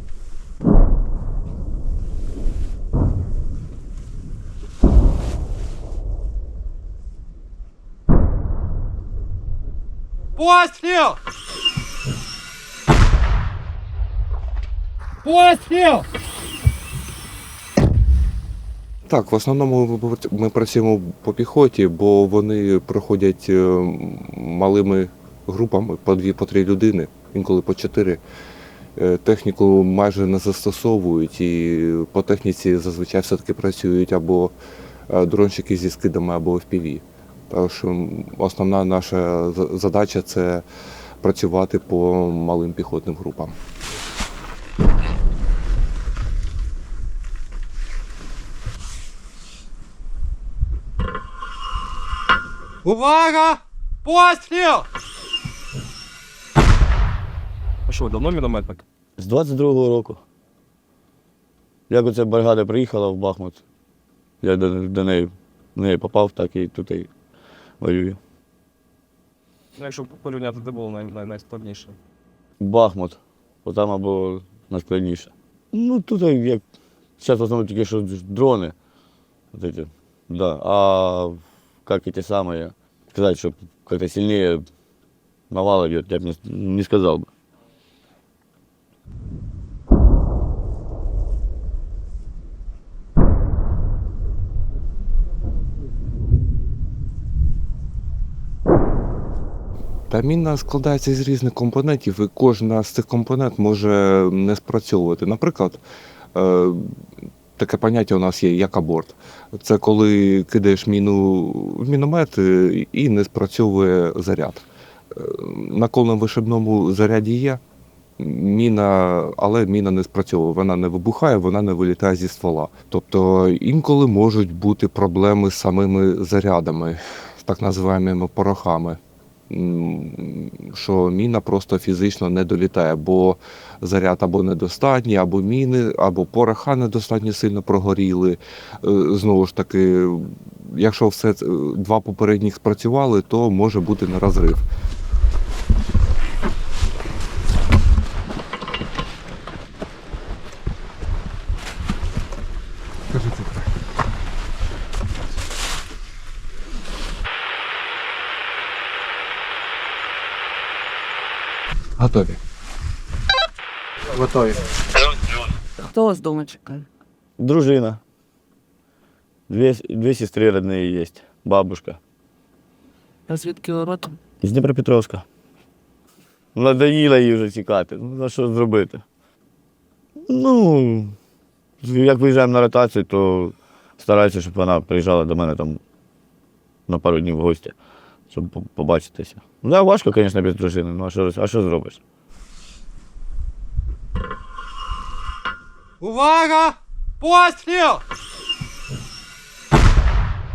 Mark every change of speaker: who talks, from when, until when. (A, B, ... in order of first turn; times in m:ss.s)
0:10.4-0:11.2 A
0:15.2-0:16.0 A
0:19.0-0:28.2 B
0:29.0-0:34.5 B
0:35.1-0:40.6 B
0:41.2-0:43.5 B
0:52.8-0:54.8 A
0:52.9-0:53.6 C
0:57.9-0:58.8 C
0:59.2-1:00.2 D
1:01.9-1:03.6 D
1:04.4-1:07.1 D
1:07.8-1:08.2 D
1:09.8-1:11.9 C
1:12.6-1:16.6 D
1:17.2-1:18.7 D
1:19.5-1:24.6 D
1:25.5-1:27.3 D
1:40.1-1:45.8 B
1:46.3-1:46.9 B
1:47.6-1:57.6 B
1:58.2-2:24.6 B
2:33.1-2:33.5 B
2:42.0-2:42.4 B
2:45.8-2:46.9 E
2:47.4-2:48.0 D
2:49.5-2:52.0 D
2:53.3-2:54.2 E
2:54.4-2:55.2 D
2:56.5-2:59.0 D
3:00.3-3:01.1 D
3:01.8-3:05.8 D
3:06.9-3:07.7 D
3:08.3-3:12.0 D
3:16.0-3:18.0 A